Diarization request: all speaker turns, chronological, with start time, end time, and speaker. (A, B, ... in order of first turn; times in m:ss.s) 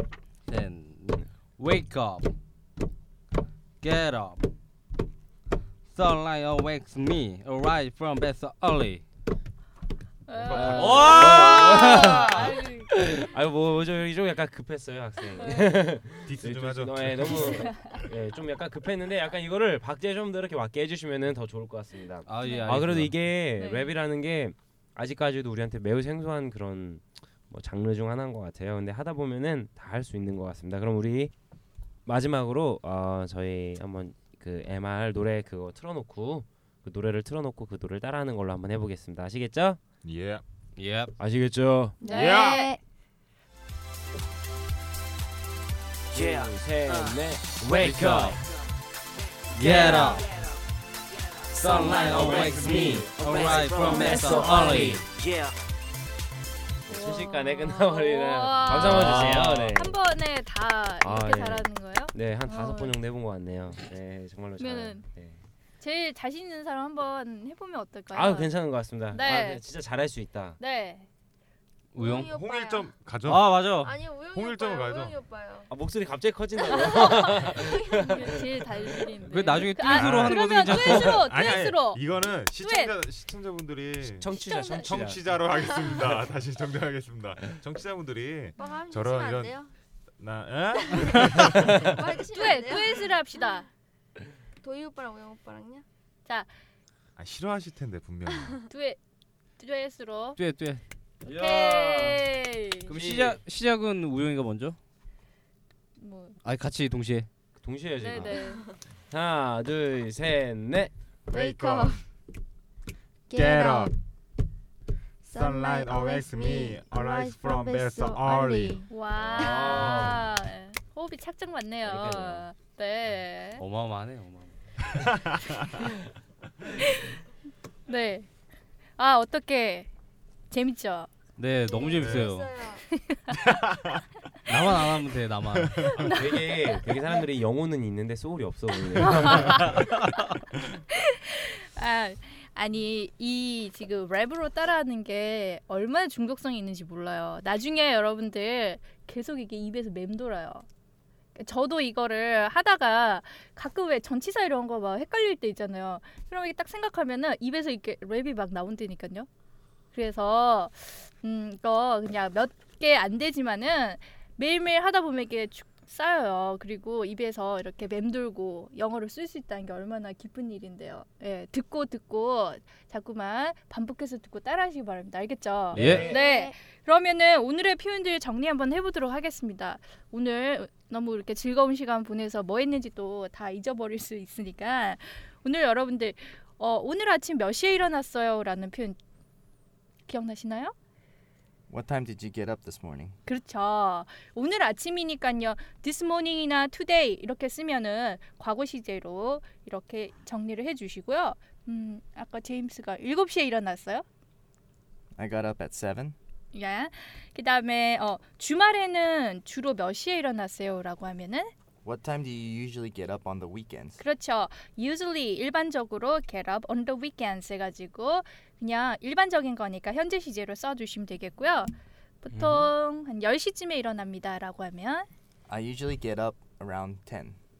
0:00.5-0:02.3 A
0:03.8-0:04.5 A
0:05.9-0:09.0 A
0:10.3-0:12.9 B
0:10.3-0:11.2 C
0:10.5-0:31.3 D
0:10.8-0:12.5 A
0:15.4-0:15.7 B
0:16.2-0:18.0 C
0:17.4-0:17.9 B
0:22.2-0:23.2 A
0:22.4-0:22.8 B
0:23.6-0:23.9 B
0:32.0-0:39.8 D
0:40.0-0:40.4 C
0:40.8-0:41.1 A
0:41.2-0:42.0 D
0:42.0-0:42.8 E
0:42.0-0:42.8 B
0:42.1-0:42.6 C
0:46.1-0:48.4 D
0:46.2-0:46.4 F
0:47.8-0:48.4 A
0:49.5-0:50.3 A
0:51.5-0:55.0 D
0:51.6-0:55.1 A
0:53.5-0:55.5 F
0:56.9-1:00.0 D
0:56.9-1:02.9 B
0:58.8-0:59.7 A
1:01.0-1:05.4 D
1:04.6-1:05.0 B
1:05.8-1:08.6 B
1:08.1-1:10.6 D
1:09.1-1:09.6 B
1:10.6-1:11.1 B
1:11.9-1:12.3 A
1:12.0-1:12.8 E
1:12.2-1:15.2 C
1:13.3-1:13.9 A
1:13.8-1:15.7 E
1:15.7-1:18.3 D
1:16.6-1:18.2 E
1:18.0-1:22.0 B
1:19.3-1:21.3 A
1:19.8-1:29.6 C
1:22.6-1:22.9 B
1:24.0-1:25.3 D
1:24.4-1:24.8 E
1:25.6-1:26.1 E
1:28.6-1:29.7 E
1:30.2-1:31.7 C
1:30.8-1:33.6 E
1:31.5-1:32.0 D
1:32.3-1:33.7 B
1:34.6-1:35.8 E
1:36.2-1:36.5 B
1:37.2-1:38.6 C
1:38.7-1:39.0 B
1:39.6-1:40.4 B
1:40.4-1:42.2 A
1:41.3-1:43.0 B
1:42.9-1:44.8 A
1:42.9-1:43.4 D
1:46.0-1:46.4 B
1:46.4-1:47.3 A
1:47.6-1:48.4 D
1:48.0-1:48.6 B
1:49.1-1:50.9 D
1:51.3-1:52.0 E
1:51.3-1:52.0 C
1:53.3-1:53.9 E
1:53.3-1:53.9 C
1:55.2-1:59.7 E
1:55.3-1:58.8 C
1:58.9-2:03.6 B
1:59.2-2:00.3 D
2:01.8-2:02.5 D
2:03.6-2:04.6 A
2:05.0-2:05.7 C
2:06.7-2:07.2 B
2:07.9-2:08.3 B
2:09.0-2:09.9 B
2:10.5-2:11.1 B
2:11.4-2:12.6 A
2:11.6-2:12.8 E
2:12.0-2:12.4 C
2:12.9-2:13.4 B
2:13.4-2:14.0 C
2:14.4-2:15.9 A
2:15.5-2:16.2 C
2:16.0-2:16.6 B
2:16.1-2:19.8 D
2:19.1-2:20.1 B
2:20.9-2:30.6 B
2:31.4-2:39.3 B
2:39.9-3:09.0 B
2:55.7-2:56.0 A
2:55.7-2:56.2 D
2:56.0-2:56.5 E
3:10.1-3:10.7 B
3:11.7-3:13.2 G
3:13.2-3:24.0 B
3:25.2-3:26.1 G
3:26.5-3:31.5 B
3:31.8-3:34.0 G
3:34.0-3:45.1 B
3:42.3-3:42.7 D
3:45.5-3:47.4 G